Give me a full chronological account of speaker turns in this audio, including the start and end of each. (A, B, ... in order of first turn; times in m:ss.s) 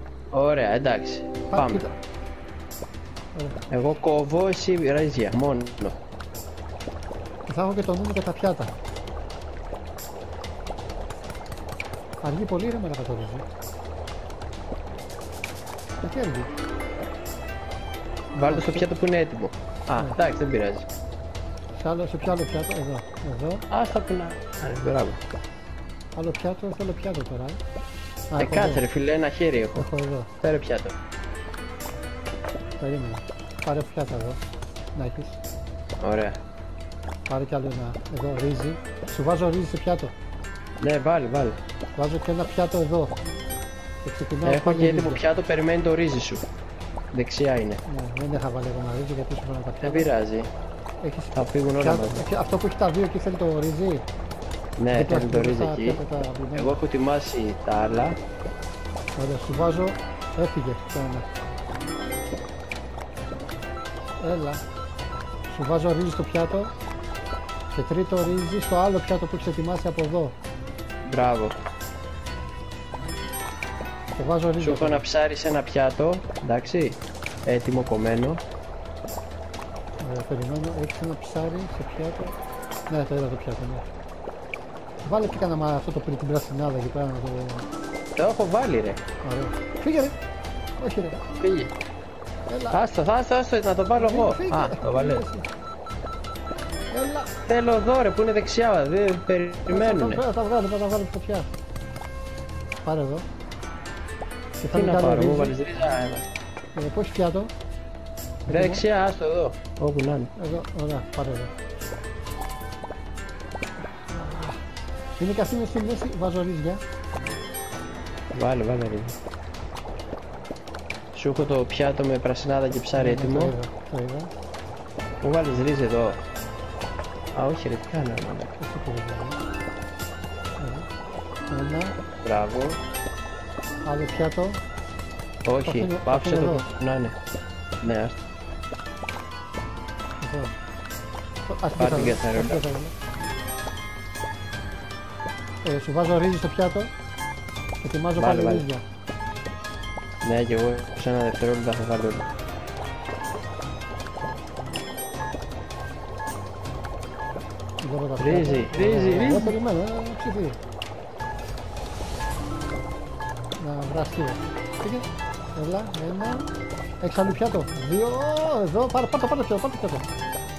0:00.3-0:01.9 A
0:01.5-0:02.0 B
0:03.4-0:03.6 B
0:03.7-0:06.0 A
0:07.5-0:08.7 B
0:12.2-0:13.4 B
0:16.0-0:16.5 B
0:18.4-0:20.9 A
0:18.5-0:18.9 B
0:21.8-0:23.6 B
0:23.7-0:25.2 A
0:26.2-0:27.6 B
0:28.3-0:28.8 B
0:28.4-0:29.9 A
0:29.8-0:30.3 B
0:30.4-0:31.0 A
0:32.8-0:34.4 B
0:35.0-0:35.4 B
0:36.0-0:36.4 A
0:37.3-0:40.2 B
0:40.8-0:41.6 A
0:42.0-0:43.2 B
0:44.0-0:45.2 B
0:44.4-0:46.4 A
0:47.1-0:47.8 A
0:47.9-0:50.1 B
0:49.8-0:50.5 A
0:51.0-0:54.1 B
0:51.3-0:52.2 A
0:54.8-0:56.0 A
0:54.9-0:56.8 B
0:56.6-0:58.2 A
0:59.2-1:01.3 B
1:04.2-1:04.6 B
1:05.5-1:06.7 B
1:07.7-1:10.4 B
1:11.1-1:11.6 A
1:14.2-1:15.0 B
1:14.6-1:18.4 A
1:20.0-1:22.4 B
1:22.9-1:23.9 B
1:25.0-1:27.7 B
1:28.2-1:29.0 A
1:29.2-1:30.2 B
1:30.8-1:31.2 B
1:31.4-1:31.7 A
1:32.5-1:32.8 B
1:32.7-1:35.2 A
1:34.0-1:35.5 B
1:36.9-1:37.3 B
1:37.5-1:40.2 A
1:39.7-1:41.5 B
1:42.8-1:43.3 B
1:44.6-1:45.6 B
1:44.7-1:46.3 A
1:46.8-1:47.5 B
1:48.5-1:48.8 B
1:48.5-1:50.3 A
1:50.4-1:51.5 B
1:54.1-1:54.6 B
1:55.2-1:56.8 B
1:58.3-1:59.2 A
2:01.1-2:03.5 A
2:02.9-2:04.3 B
2:05.2-2:06.2 A
2:07.3-2:08.6 A
2:08.6-2:09.4 B
2:10.6-2:10.9 B
2:11.5-2:12.0 B
2:12.2-2:12.8 A
2:13.8-2:14.6 B
2:15.4-2:17.2 A
2:15.6-2:16.7 B
2:17.8-2:18.2 A
2:20.2-2:20.6 B
2:21.5-2:22.9 B
2:21.8-2:22.6 A
2:25.6-2:26.9 B
2:27.8-2:28.8 B
2:28.2-2:28.7 A
2:30.2-2:32.3 A
2:37.8-2:40.6 B
2:38.2-2:39.6 A
2:43.6-2:46.5 B
2:47.0-2:50.1 B